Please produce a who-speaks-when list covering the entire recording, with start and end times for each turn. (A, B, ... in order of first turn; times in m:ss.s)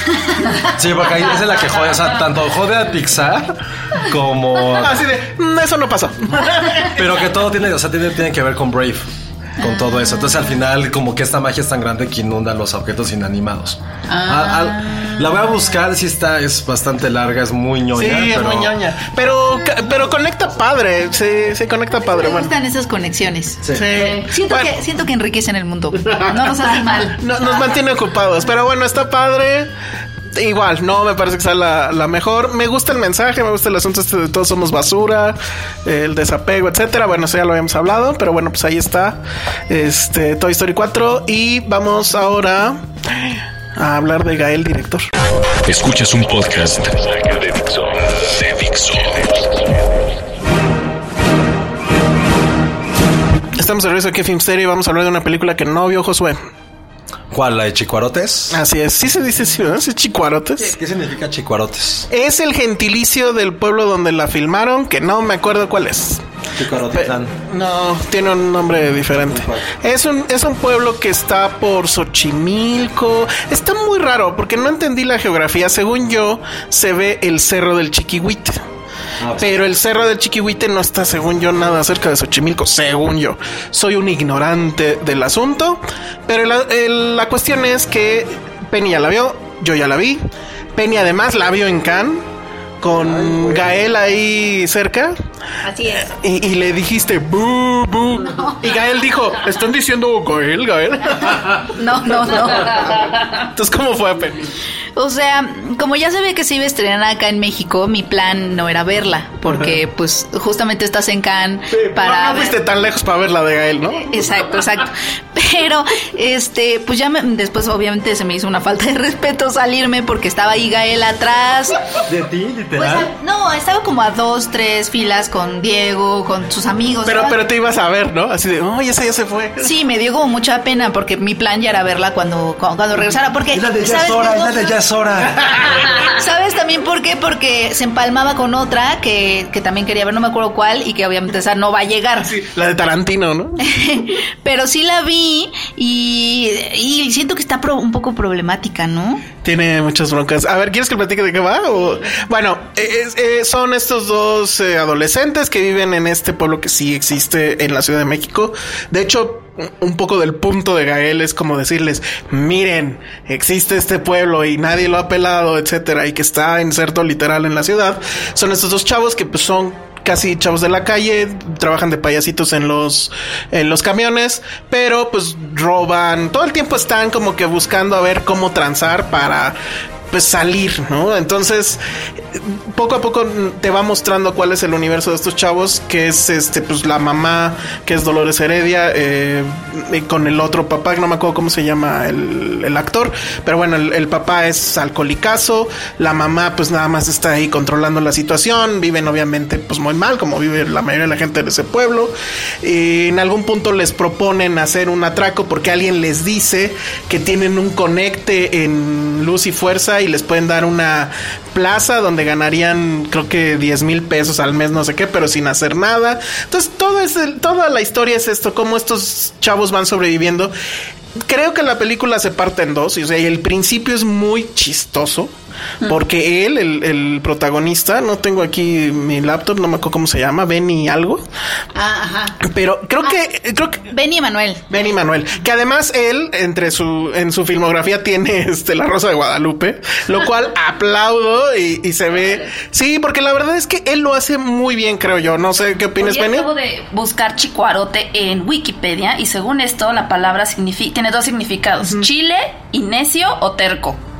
0:00.7-0:05.0 A
0:04.8-0:07.0 B
0:06.8-0:18.7 A
0:09.6-0:10.4 C
0:14.1-0:15.5 C
0:17.9-0:22.5 B
0:21.9-0:27.8 C
0:23.6-0:23.9 A
0:23.7-0:24.7 B
0:26.1-0:29.7 B
0:30.3-0:45.1 B
0:45.6-0:49.3 D
0:53.6-0:56.4 B
0:57.3-0:58.6 A
0:58.5-1:00.8 B
1:00.7-1:02.1 A
1:02.1-1:06.2 B
1:06.6-1:07.3 A
1:07.0-1:18.6 B
1:09.3-1:09.7 A
1:19.2-1:19.5 A
1:19.4-1:30.2 B
1:30.8-1:32.2 B
1:32.8-1:35.2 B
1:32.9-1:33.8 A
1:35.6-1:36.1 C
1:36.0-1:41.8 B
1:38.2-1:38.7 C
1:41.7-1:42.9 C
1:42.5-1:44.6 B
1:45.0-1:52.6 C
1:51.7-1:54.1 B
1:54.0-2:02.0 C
2:02.1-2:03.1 A
2:02.8-2:07.4 C
2:07.0-2:09.7 B
2:09.6-2:14.8 C
2:13.5-2:15.6 A
2:15.4-2:15.8 B
2:16.0-2:22.4 C
2:22.2-2:23.6 B
2:23.6-2:29.2 C
2:29.4-2:59.6 B
3:00.1-3:01.8 B
3:02.3-3:40.5 B
3:41.2-3:45.3 B
3:45.8-3:51.2 B
3:51.7-3:52.4 C
3:52.4-3:53.8 B
3:53.9-3:54.6 C
3:54.7-4:06.5 B
4:02.1-4:02.5 E
4:06.0-4:14.0 E